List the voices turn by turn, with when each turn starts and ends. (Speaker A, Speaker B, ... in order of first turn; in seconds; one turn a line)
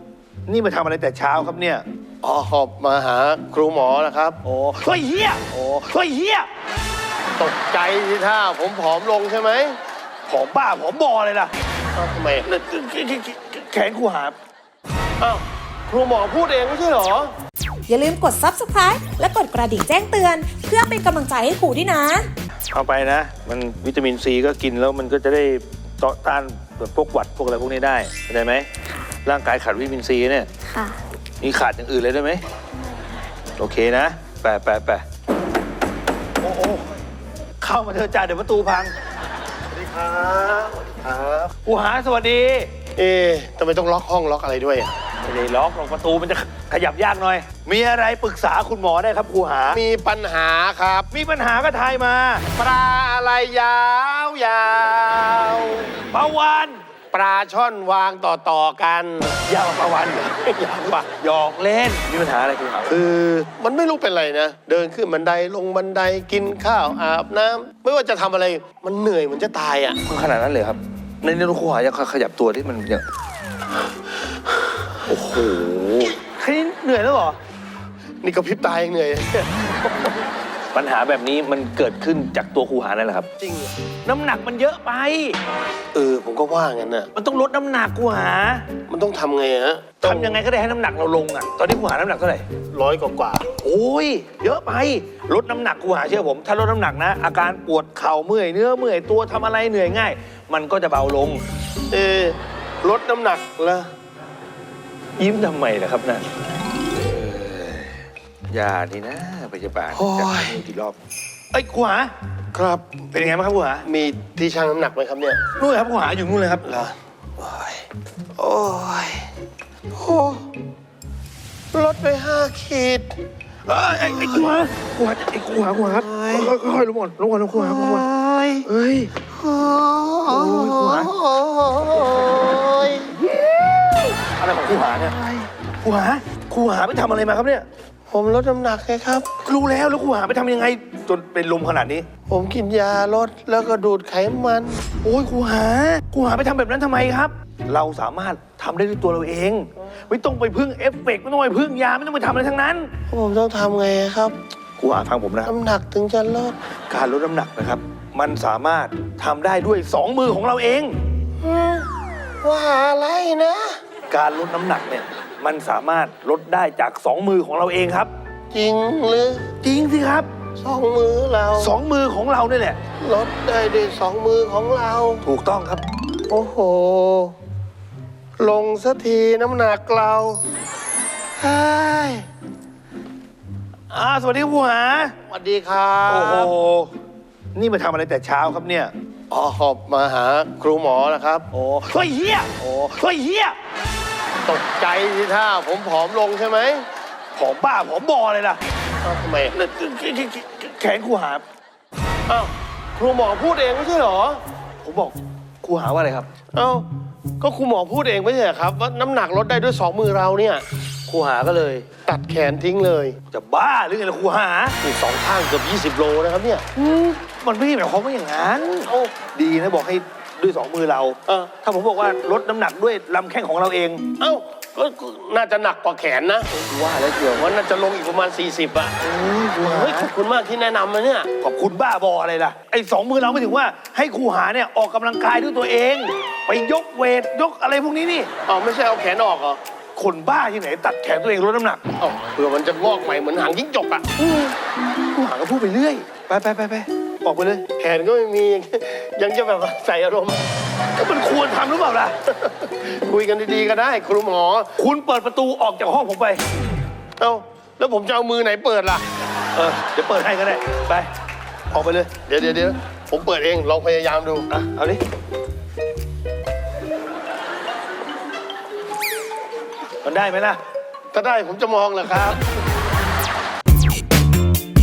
Speaker A: 0.5-1.8
Speaker B: 2.2-4.4
Speaker A: 4.4-6.5
Speaker B: 7.4-9.8
Speaker A: 10.3-11.5
Speaker B: 11.9-12.5
Speaker A: 12.5-14.4
Speaker B: 15.2-17.3
Speaker C: 17.9-22.3
Speaker A: 22.7-28.7
Speaker A: 29.2-30.5
Speaker A: 31.4-32.4
Speaker A: 33.6-35.0
Speaker A: 36.4-36.9
Speaker A: 37.6-38.9
Speaker B: 39.7-41.5
Speaker A: 41.6-42.7
Speaker B: 43.0-44.9
Speaker A: 45.2-49.8
Speaker B: 49.7-51.1
Speaker A: 51.1-52.4
Speaker B: 52.6-56.0
Speaker A: 56.1-56.8
Speaker B: 57.1-59.4
Speaker A: 59.4-63.0
Speaker B: 60.5-61.0
Speaker B: 62.9-70.0
Speaker A: 70.1-73.0
Speaker A: 75.1-77.4
Speaker B: 78.2-80.2
Speaker A: 80.7-83.3
Speaker B: 83.4-83.7
Speaker A: 84.0-85.4
Speaker B: 85.9-87.1
Speaker A: 87.2-88.7
Speaker B: 88.9-90.4
Speaker A: 90.0-92.5
Speaker B: 92.7-93.5
Speaker A: 93.5-101.4
Speaker B: 101.9-103.9
Speaker A: 105.2-106.3
Speaker A: 107.1-108.0
Speaker A: 108.5-111.0
Speaker B: 109.9-110.6
Speaker A: 111.5-112.1
Speaker B: 112.5-113.0
Speaker A: 113.1-113.9
Speaker B: 113.8-115.4
Speaker A: 115.6-116.8
Speaker B: 116.7-117.8
Speaker B: 118.4-119.3
Speaker B: 119.9-120.5
Speaker B: 121.7-123.2
Speaker A: 123.7-128.1
Speaker B: 124.0-124.5
Speaker B: 125.9-126.5
Speaker B: 127.5-128.7
Speaker A: 128.7-129.1
Speaker B: 129.3-133.1
Speaker A: 130.3-131.1
Speaker A: 133.2-135.2
Speaker B: 135.1-135.5
Speaker A: 135.8-137.7
Speaker B: 138.1-139.3
Speaker A: 139.4-142.1
Speaker B: 142.3-144.8
Speaker A: 145.0-152.9
Speaker B: 153.1-154.4
Speaker A: 154.8-155.5
Speaker B: 155.4-156.6
Speaker A: 156.9-160.9
Speaker B: 161.4-161.9
Speaker B: 162.4-163.8
Speaker A: 164.1-168.1
Speaker B: 168.5-169.5
Speaker A: 169.6-170.3
Speaker B: 170.6-171.8
Speaker A: 171.6-172.8
Speaker B: 173.0-175.2
Speaker A: 175.2-175.8
Speaker B: 176.3-177.4
Speaker B: 178.4-180.4
Speaker B: 181.4-182.3
Speaker A: 183.9-185.1
Speaker B: 185.3-186.5
Speaker A: 186.1-186.9
Speaker A: 187.6-188.9
Speaker B: 189.3-191.5
Speaker A: 191.5-193.6
Speaker B: 194.4-196.9
Speaker A: 197.3-198.6
Speaker B: 199.0-199.6
Speaker A: 199.5-201.4
Speaker B: 202.3-204.4
Speaker A: 204.8-206.3
Speaker B: 206.5-206.9
Speaker B: 207.4-210.7
Speaker A: 211.1-211.9
Speaker B: 212.1-213.2
Speaker A: 213.3-214.8
Speaker B: 214.8-216.6
Speaker A: 216.8-224.0
Speaker B: 218.9-219.1
Speaker B: 224.2-226.5
Speaker A: 226.5-227.5
Speaker B: 227.4-229.0
Speaker A: 229.0-230.1
Speaker B: 229.6-231.3
Speaker A: 231.4-238.3
Speaker B: 238.5-239.6
Speaker A: 240.0-241.8
Speaker B: 242.0-244.1
Speaker A: 244.2-244.6
Speaker A: 245.1-247.7
Speaker B: 247.8-250.4
Speaker A: 250.9-252.2
Speaker B: 252.4-254.7
Speaker A: 254.8-256.4
Speaker B: 257.2-259.0
Speaker A: 259.6-261.1
Speaker A: 261.7-262.1
Speaker B: 262.2-264.5
Speaker A: 264.5-265.0
Speaker A: 270.0-270.6
Speaker B: 271.1-272.4